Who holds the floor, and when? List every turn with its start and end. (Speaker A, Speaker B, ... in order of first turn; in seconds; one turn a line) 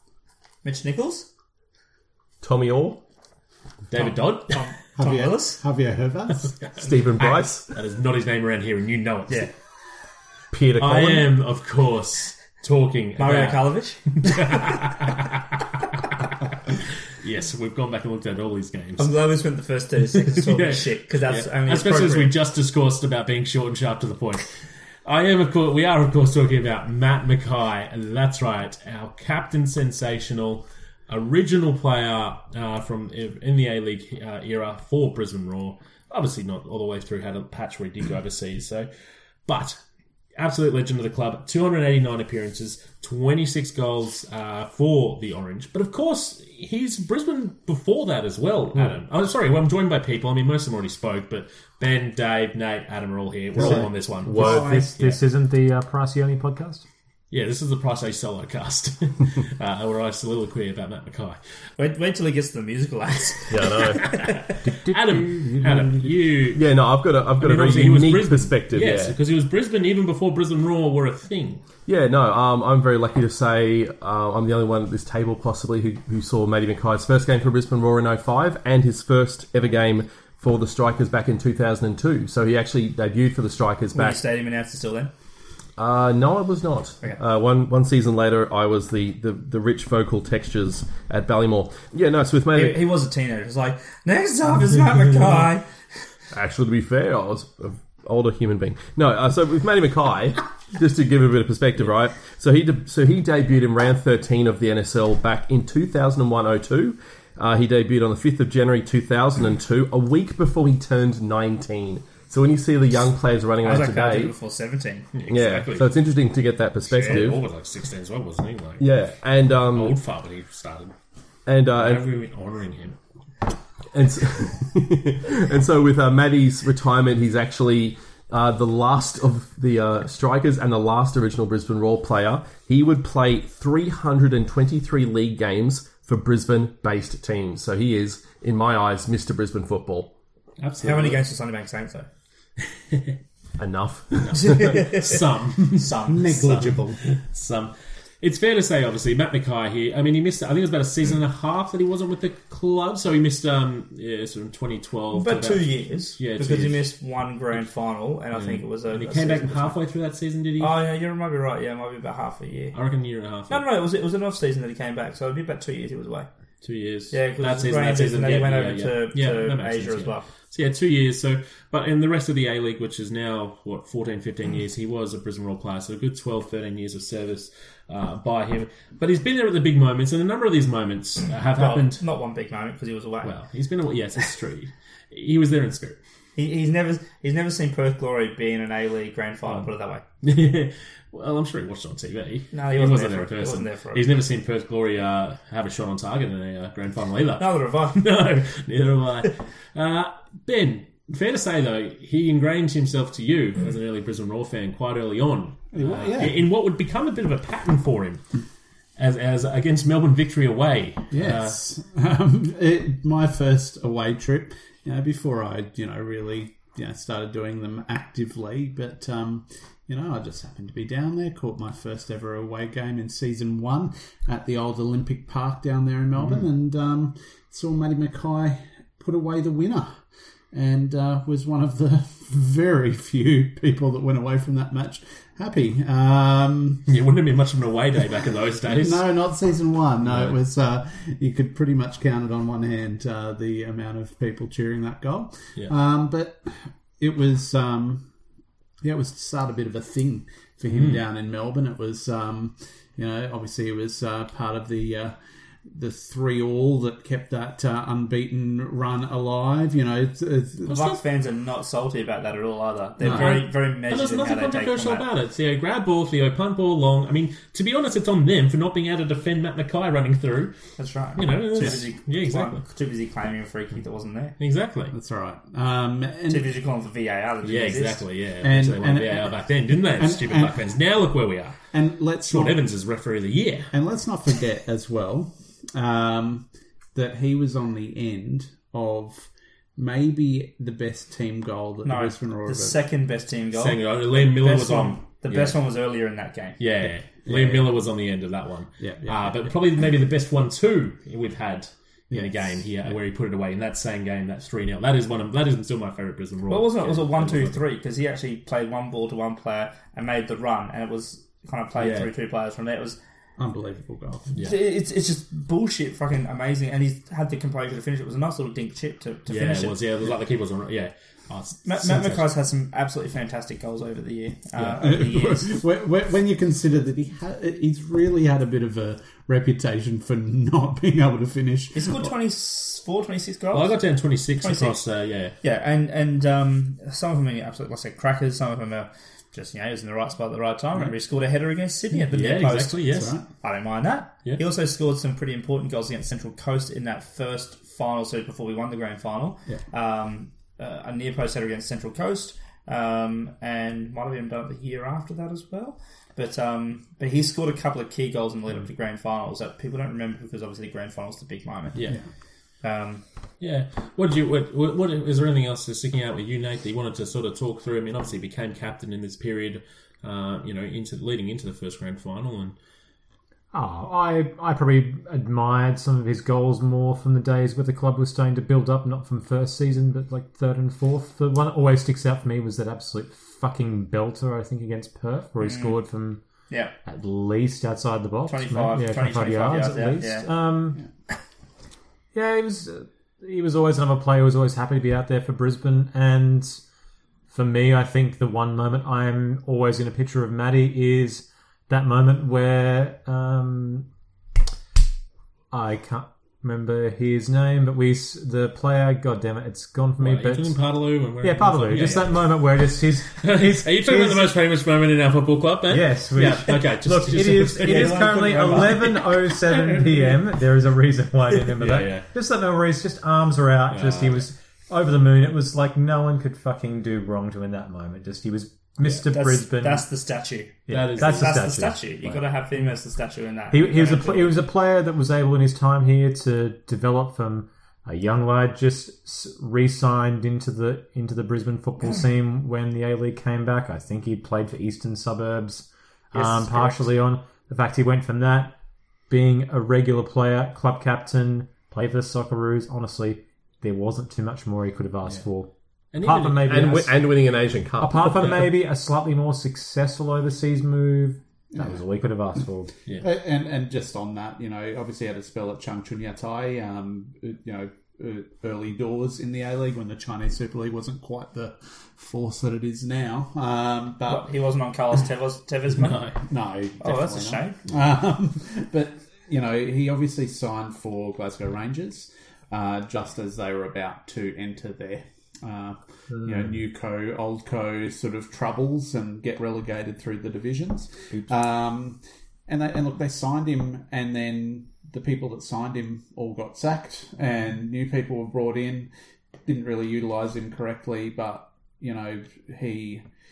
Speaker A: 0.6-1.3
Speaker B: 2.4-3.0
Speaker C: 3.9-4.7
Speaker A: 3.9-5.6
Speaker D: 5.0-6.7
Speaker A: 6.8-7.4
Speaker B: 6.8-7.7
Speaker C: 7.7-9.5
Speaker B: 10.5-11.3
Speaker C: 10.8-15.4
Speaker A: 13.2-14.9
Speaker C: 17.1-19.2
Speaker A: 19.0-22.4
Speaker C: 20.1-24.4
Speaker C: 25.1-38.9
Speaker C: 39.5-39.8
Speaker C: 40.4-55.2
Speaker A: 53.6-55.0
Speaker B: 53.6-54.7
Speaker E: 54.3-56.8
Speaker C: 57.3-61.4
Speaker A: 61.8-64.5
Speaker B: 63.5-64.0
Speaker C: 64.2-66.6
Speaker E: 64.6-66.1
Speaker B: 66.5-69.2
Speaker C: 67.4-71.6
Speaker B: 71.9-84.2
Speaker A: 83.9-85.1
Speaker B: 85.8-92.9
Speaker A: 92.5-95.7
Speaker B: 96.3-114.3
Speaker A: 113.6-115.1
Speaker C: 115.1-116.0
Speaker B: 115.3-117.4
Speaker C: 116.9-119.0
Speaker B: 118.8-120.0
Speaker C: 119.5-121.0
Speaker B: 121.5-122.1
Speaker C: 121.8-123.0
Speaker B: 123.9-140.1
Speaker C: 140.6-141.2
Speaker A: 140.8-142.1
Speaker B: 143.6-144.8
Speaker C: 144.2-156.9
Speaker A: 144.5-145.2
Speaker A: 145.7-146.6
Speaker D: 146.1-147.1
Speaker A: 155.1-159.8
Speaker C: 158.3-160.8
Speaker A: 160.6-162.8
Speaker C: 162.7-163.6
Speaker A: 163.5-166.3
Speaker C: 166.6-182.0
Speaker A: 167.1-170.2
Speaker A: 181.6-183.4
Speaker C: 183.2-186.0
Speaker A: 186.4-190.0
Speaker C: 190.2-208.2
Speaker A: 192.5-194.1
Speaker A: 197.4-198.1
Speaker D: 205.7-206.5
Speaker C: 209.0-211.6
Speaker D: 211.1-236.9
Speaker C: 236.9-239.1
Speaker D: 238.7-248.1
Speaker C: 240.1-240.4
Speaker D: 248.8-255.2
Speaker C: 250.7-251.0
Speaker D: 255.7-260.9
Speaker C: 260.7-261.0
Speaker A: 260.7-265.1
Speaker D: 263.0-263.3
Speaker C: 263.0-270.6
Speaker A: 270.8-274.4
Speaker C: 271.2-272.6
Speaker C: 274.4-274.9
Speaker D: 274.9-276.5
Speaker A: 276.3-278.1
Speaker C: 277.4-281.6
Speaker D: 278.4-279.4
Speaker D: 279.9-280.7
Speaker D: 281.7-282.6
Speaker C: 282.2-283.7
Speaker D: 283.7-292.8
Speaker A: 291.8-296.6
Speaker C: 293.5-295.6
Speaker C: 296.6-307.6
Speaker D: 297.2-297.8
Speaker D: 298.8-299.5
Speaker D: 302.1-302.7
Speaker A: 306.5-313.0
Speaker C: 311.8-312.1
Speaker D: 313.4-314.4
Speaker A: 314.4-319.8
Speaker C: 319.3-322.3
Speaker A: 321.6-325.6
Speaker C: 324.6-324.9
Speaker D: 324.8-332.1
Speaker A: 331.7-333.8
Speaker C: 333.5-335.4
Speaker A: 334.4-334.8
Speaker A: 335.4-342.9
Speaker C: 341.9-343.2
Speaker D: 342.9-343.2
Speaker A: 343.4-361.9
Speaker A: 362.6-363.0
Speaker C: 363.4-372.6
Speaker E: 373.5-386.2
Speaker A: 385.4-385.9
Speaker A: 386.5-386.8
Speaker E: 386.9-390.8
Speaker A: 388.3-390.3
Speaker E: 392.1-396.6
Speaker E: 397.3-403.9
Speaker E: 405.5-410.6
Speaker C: 410.0-412.3
Speaker E: 411.2-414.3
Speaker C: 413.2-418.7
Speaker E: 415.7-429.9
Speaker A: 417.6-419.0
Speaker C: 419.5-420.0
Speaker C: 421.6-422.1
Speaker C: 423.7-424.3
Speaker A: 429.1-434.4
Speaker C: 430.7-431.4
Speaker E: 430.7-432.2
Speaker E: 433.5-448.6
Speaker E: 449.1-455.5
Speaker C: 455.9-456.6
Speaker E: 456.0-457.0
Speaker B: 456.4-458.5
Speaker E: 457.8-462.7
Speaker D: 461.5-461.8
Speaker D: 462.9-474.3
Speaker A: 474.1-476.1
Speaker C: 475.8-476.1
Speaker D: 476.2-498.9
Speaker A: 476.8-477.6
Speaker D: 499.5-503.0